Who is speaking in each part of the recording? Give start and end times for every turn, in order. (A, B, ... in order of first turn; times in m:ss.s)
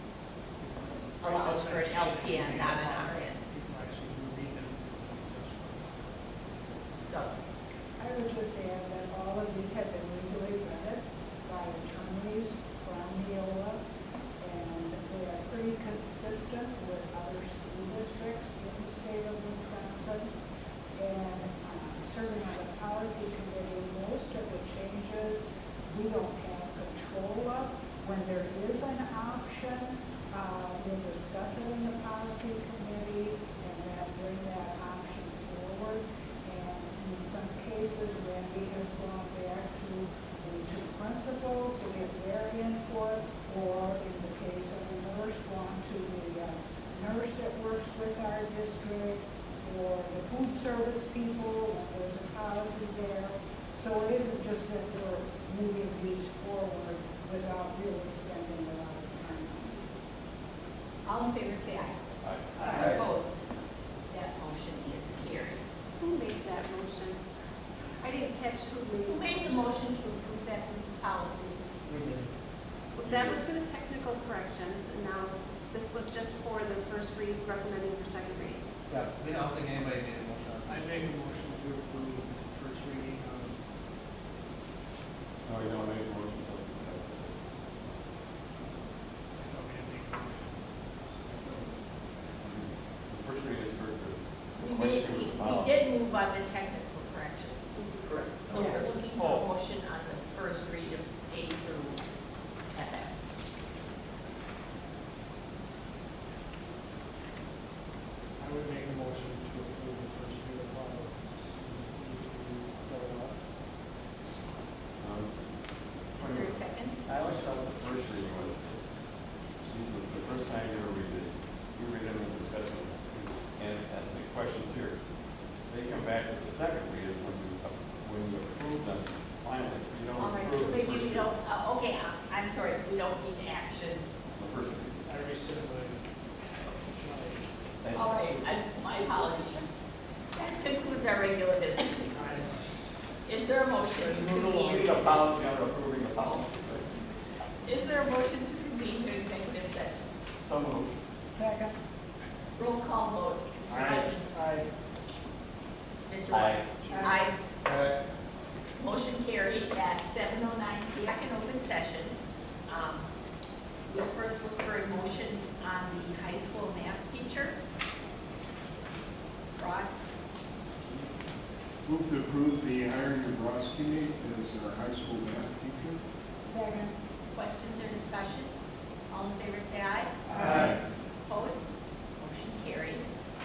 0:00.6-0:06.8 A
0:01.2-0:03.4 B
0:07.0-0:07.3 B
0:08.0-0:13.8 C
0:14.4-0:20.3 C
0:21.0-0:59.8 C
1:01.0-1:02.0 B
1:02.2-1:03.0 D
1:02.6-1:03.4 B
1:02.7-1:03.0 E
1:04.1-1:05.6 B
1:06.0-1:07.2 F
1:08.0-1:09.8 F
1:09.0-1:11.8 B
1:11.9-1:12.3 E
1:12.9-1:18.6 F
1:13.0-1:13.4 D
1:18.9-1:20.7 E
1:20.6-1:23.6 A
1:25.4-1:27.3 D
1:29.3-1:31.7 A
1:32.4-1:35.8 D
1:34.6-1:37.8 B
1:38.0-1:38.6 F
1:38.4-1:42.0 B
1:42.7-1:43.2 B
1:48.4-1:53.4 A
1:55.0-1:55.4 D
1:56.1-1:58.8 D
1:56.2-1:57.0 B
1:59.6-2:05.0 D
2:05.7-2:11.3 D
2:10.2-2:14.0 B
2:14.3-2:15.0 D
2:15.0-2:16.0 A
2:16.8-2:17.5 A
2:17.8-2:18.4 D
2:17.9-2:19.6 B
2:20.3-2:22.1 B
2:22.0-2:22.7 A
2:23.2-2:25.2 B
2:24.1-2:26.9 D
2:27.6-2:30.1 B
2:30.4-2:30.9 D
2:31.3-2:31.8 C
2:32.6-2:34.4 B
2:33.7-2:34.6 A
2:36.1-2:37.3 B
2:36.3-2:37.0 D
2:36.9-2:37.2 C
2:37.6-2:38.0 E
2:38.8-2:42.2 B
2:42.7-2:43.1 B
2:43.9-2:47.6 B
2:49.6-2:50.2 B
2:51.8-2:56.0 G
2:56.5-2:56.9 C
2:57.3-2:58.5 B
2:59.1-3:03.1 B
3:00.3-3:00.8 E